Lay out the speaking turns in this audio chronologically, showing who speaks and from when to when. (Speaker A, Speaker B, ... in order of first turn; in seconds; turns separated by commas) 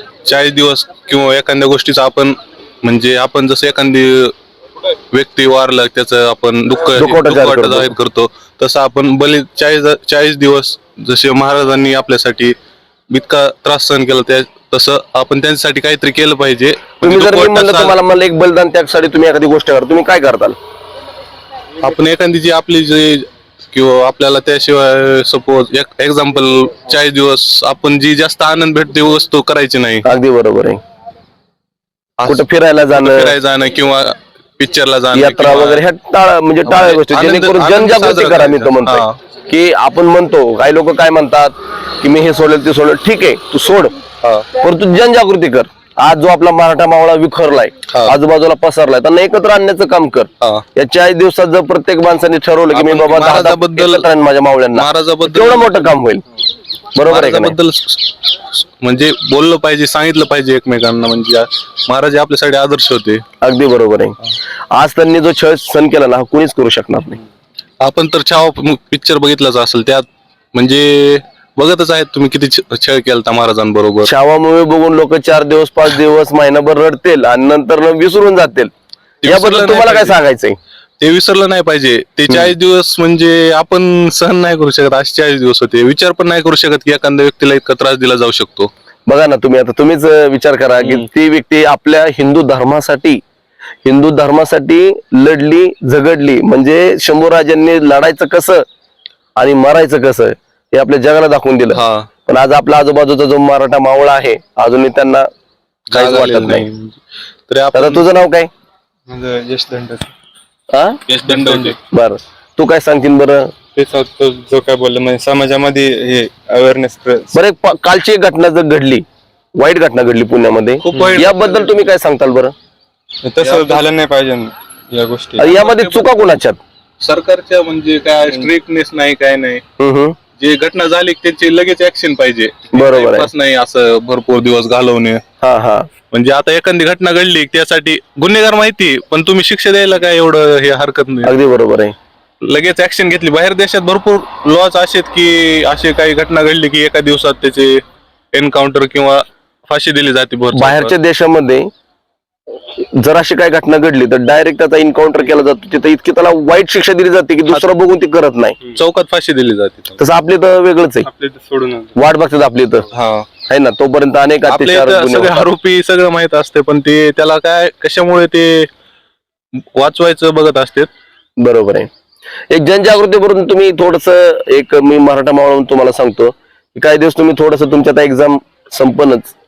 Speaker A: 0.3-4.3, Speaker A: 5.1-12.6, Speaker B: 7.0-7.9, Speaker A: 13.1-18.0, Speaker B: 17.0-20.6, Speaker A: 21.8-30.1, Speaker B: 30.1-30.8, Speaker A: 32.2-35.8, Speaker B: 32.3-33.3, Speaker B: 35.1-44.0, Speaker A: 36.7-39.2, Speaker B: 44.6-56.2, Speaker A: 52.7-54.1, Speaker A: 54.7-55.7, Speaker B: 57.0-57.6, Speaker A: 57.1-58.0, Speaker A: 58.8-63.2, Speaker B: 63.4-64.2, Speaker B: 64.7-67.2, Speaker A: 67.8-74.1, Speaker B: 74.0-78.7, Speaker A: 79.2-80.2, Speaker B: 79.3-80.6, Speaker A: 81.0-88.7, Speaker B: 89.1-93.2, Speaker B: 93.8-98.7, Speaker B: 99.4-105.3, Speaker A: 101.7-102.1, Speaker A: 105.9-108.0, Speaker B: 105.9-106.7, Speaker B: 107.7-108.5, Speaker C: 109.1-110.1, Speaker B: 110.7-111.0, Speaker A: 111.1-111.8, Speaker C: 111.3-111.7, Speaker B: 111.9-113.5, Speaker C: 113.8-117.4, Speaker B: 117.3-119.0, Speaker B: 119.6-122.5, Speaker A: 120.8-121.7, Speaker C: 120.9-121.2, Speaker C: 123.2-125.5, Speaker A: 123.4-123.9, Speaker B: 125.4-126.6, Speaker A: 125.4-126.2, Speaker A: 127.0-129.6, Speaker B: 129.8-130.2, Speaker A: 130.3-135.2, Speaker B: 132.7-133.3, Speaker B: 135.4-135.9, Speaker A: 136.1-141.3, Speaker B: 141.2-141.9, Speaker A: 142.4-147.8, Speaker A: 148.3-150.9, Speaker B: 150.6-151.7, Speaker B: 152.7-158.6, Speaker A: 158.7-160.0, Speaker B: 160.0-161.1, Speaker C: 161.1-162.0, Speaker B: 162.0-162.9, Speaker A: 162.9-163.3, Speaker B: 163.5-165.5, Speaker A: 164.5-168.7, Speaker A: 169.8-170.9, Speaker B: 171.4-171.9, Speaker B: 172.5-179.3